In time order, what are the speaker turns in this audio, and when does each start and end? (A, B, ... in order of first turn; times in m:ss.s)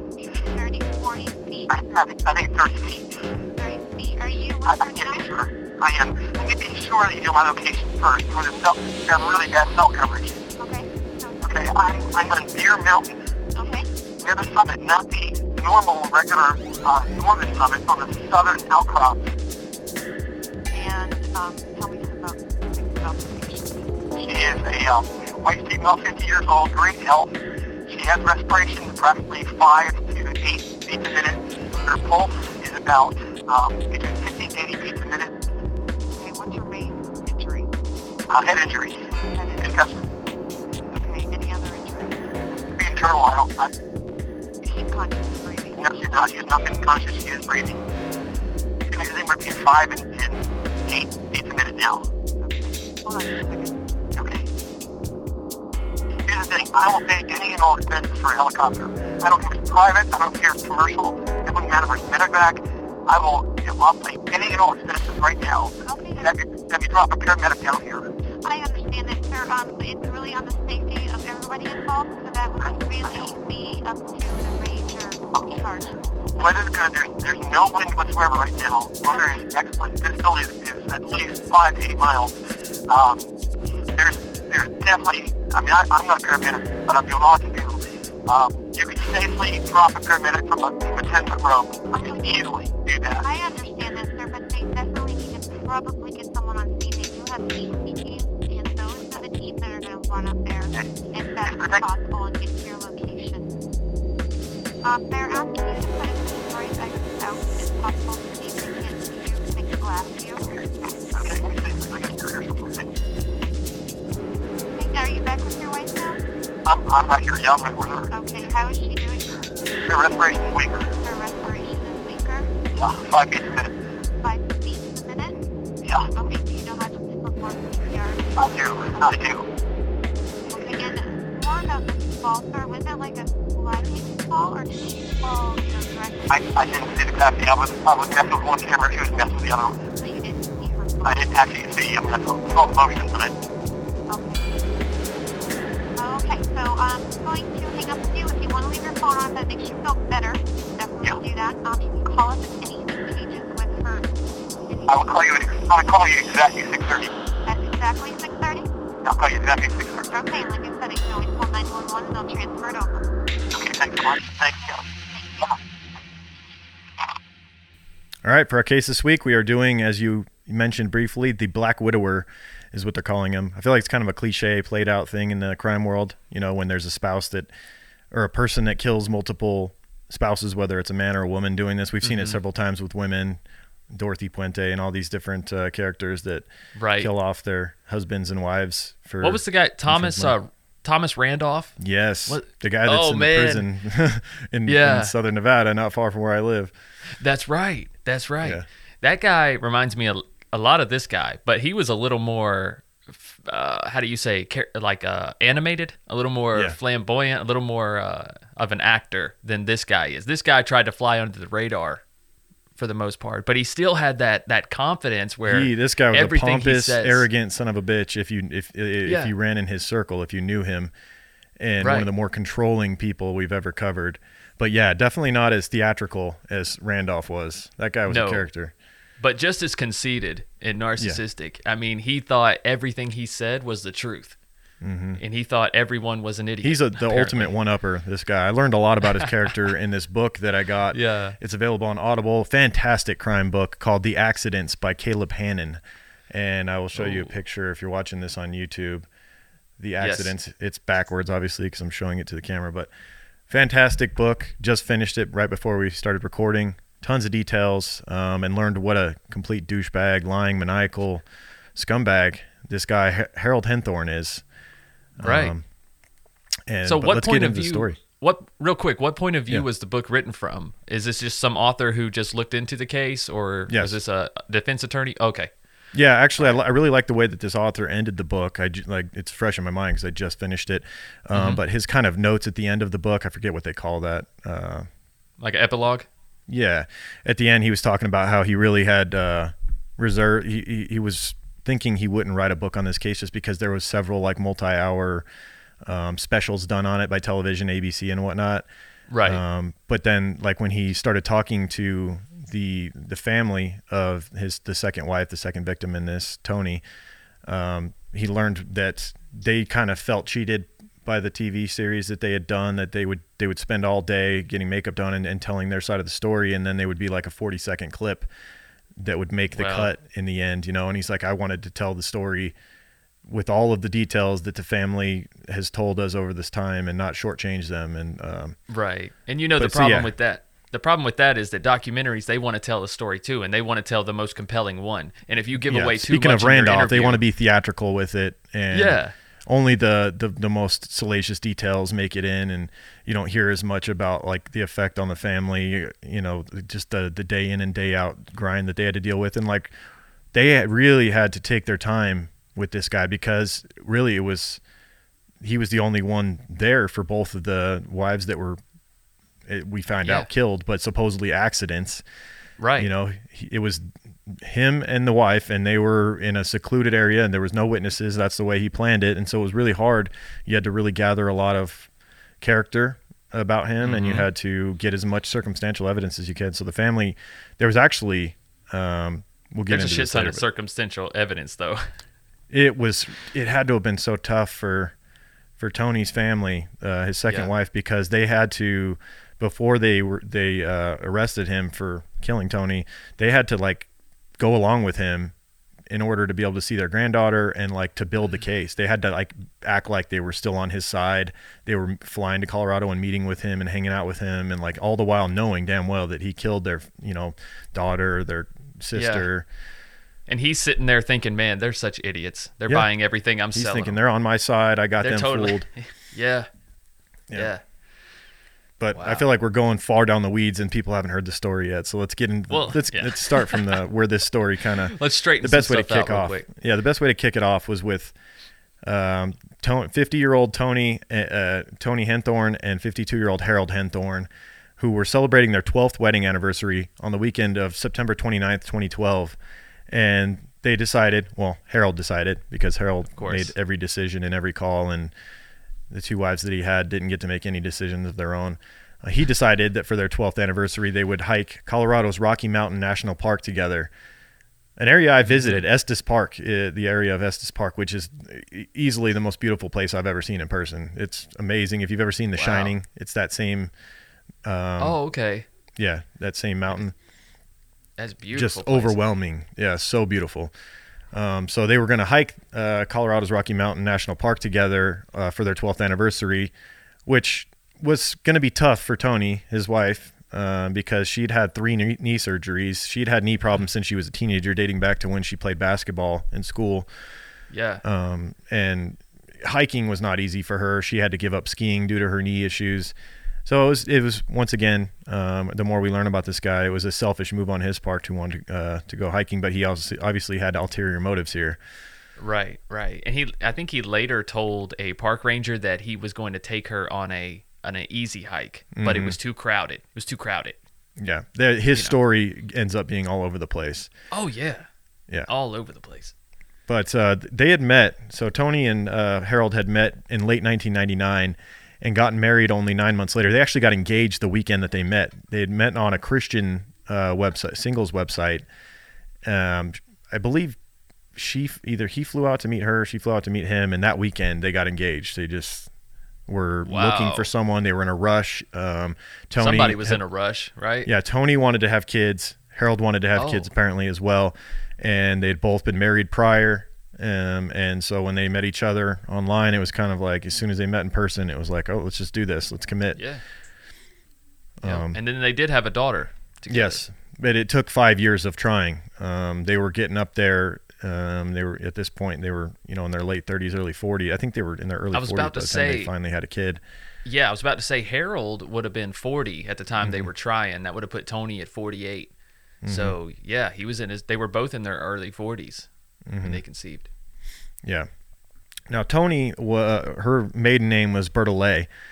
0:00.2-0:01.8 A
0:01.7-0:03.1 B
0:03.5-0:05.3 A
0:04.6-0:10.4 B
0:10.5-0:12.4 A
0:11.4-0:13.2 B
0:13.5-0:13.9 A
0:14.2-0:19.3 B
0:20.7-0:24.2 A
0:24.2-0:35.3 B
0:36.1-0:37.7 A
0:38.3-0:39.0 B
0:39.1-0:39.9 A
0:39.6-0:40.0 B
0:40.8-0:42.5 A
0:42.8-0:43.7 B
0:44.6-0:46.0 A
0:45.8-0:47.8 B
0:48.9-0:52.1 B
0:52.4-0:53.8 A
0:54.2-0:54.4 B
0:56.2-1:08.1 B
1:05.8-1:06.3 A
1:08.4-1:15.9 A
1:12.6-1:13.2 B
1:16.3-1:22.4 B
1:19.1-1:19.4 A
1:22.9-1:23.3 B
1:23.9-1:33.3 B
1:31.9-1:32.4 A
1:33.2-1:43.5 A
1:40.7-1:41.8 B
1:44.8-1:51.5 A
1:51.1-1:52.9 B
1:54.7-1:56.2 A
1:56.6-1:58.1 B
1:58.1-1:59.4 A
1:59.8-2:00.9 B
2:00.8-2:02.5 A
2:02.7-2:03.7 B
2:04.2-2:05.4 A
2:05.8-2:06.1 B
2:06.0-2:09.1 A
2:08.4-2:09.4 B
2:10.5-2:16.8 A
2:16.3-2:19.8 B
2:19.9-2:21.3 A
2:21.0-2:23.3 B
2:24.1-2:24.5 A
2:26.0-2:34.1 A
2:34.7-2:35.2 A
2:34.9-2:37.1 B
2:37.4-2:38.7 A
2:39.0-2:40.1 B
2:40.1-2:43.1 A
2:43.5-2:44.8 B
2:45.1-2:45.5 A
2:48.2-2:57.5 C
2:58.1-3:06.4 C
3:02.0-3:02.4 D
3:06.8-3:07.1 D
3:07.0-3:10.4 C
3:09.2-3:13.7 D
3:11.8-3:16.7 C
3:14.6-3:15.1 D
3:17.1-3:32.0 D
3:32.8-3:37.3 D
3:35.4-3:40.9 C
3:39.0-3:39.3 D
3:41.6-3:48.7 C
3:41.8-3:42.1 D
3:48.1-3:48.4 D
3:49.2-3:54.4 D
3:54.8-3:55.2 C
3:55.2-3:57.5 D
3:56.6-4:09.1 C
4:00.9-4:01.4 D
4:07.0-4:07.3 D
4:09.8-4:12.9 C
4:10.0-4:10.3 D
4:13.5-4:24.4 C
4:25.2-4:25.6 C
4:25.2-4:25.5 D
4:26.7-4:28.0 C
4:26.8-4:35.5 D
4:33.7-4:34.0 C
4:35.9-4:44.9 C
4:41.3-4:41.6 D
4:45.4-4:46.1 D
4:46.5-4:55.2 C
4:55.8-4:58.6 C
4:59.1-4:59.4 D
4:59.2-5:06.8 C
5:07.4-5:18.3 C
5:19.0-5:22.5 C
5:19.5-5:19.9 D
5:23.3-5:28.6 C
5:28.7-5:37.2 D
5:29.6-5:30.1 C
5:35.7-5:49.7 C
5:38.7-5:39.1 D
5:50.3-5:54.6 C
5:55.4-5:58.6 C
5:59.5-6:02.0 C
6:00.0-6:00.3 D
6:02.6-6:02.9 D
6:02.8-6:11.9 C
6:12.4-6:20.4 C
6:13.8-6:14.3 D
6:19.7-6:21.9 D
6:22.5-6:24.9 C
6:25.6-6:33.9 C
6:34.4-6:35.3 C
6:35.9-6:49.5 C
6:48.9-6:49.3 D
6:50.3-6:54.0 D
6:53.5-6:55.7 C
6:55.0-6:56.5 D
6:57.3-6:57.6 D
6:58.8-7:08.1 C
6:58.9-6:59.2 D
7:02.5-7:03.8 D
7:04.9-7:06.5 D
7:08.8-7:19.4 C
7:19.9-7:25.1 C
7:23.1-7:23.5 D
7:25.9-7:33.9 C
7:34.8-7:43.7 C
7:35.2-7:35.6 D
7:42.4-7:42.7 D
7:44.4-7:45.0 C
7:44.8-7:45.5 D
7:45.8-7:46.9 C
7:48.0-7:49.0 D
7:48.3-7:50.5 C
7:51.1-7:56.5 C
7:57.0-8:06.9 C
8:07.5-8:07.8 D
8:07.8-8:12.9 C
8:13.4-8:21.6 C
8:22.2-8:30.6 D
8:28.7-8:29.2 C
8:31.0-8:33.9 C
8:31.7-8:32.0 D
8:34.1-8:34.7 D
8:35.2-8:36.1 D
8:36.7-8:48.4 C
8:49.2-8:50.6 C
8:51.1-8:55.7 C
8:56.3-9:00.0 C
8:56.7-8:57.3 D
8:59.4-9:00.9 D
9:00.8-9:13.0 C
9:03.1-9:03.5 D
9:12.9-9:13.2 D
9:14.6-9:15.0 C
9:14.6-9:16.8 D
9:16.5-9:26.6 C
9:24.9-9:25.9 D
9:27.0-9:32.1 D
9:29.8-9:30.1 C
9:32.6-9:33.0 C
9:32.6-9:35.7 D
9:36.1-9:36.4 C
9:36.2-9:36.9 D
9:37.6-9:37.9 C
9:38.7-9:41.7 C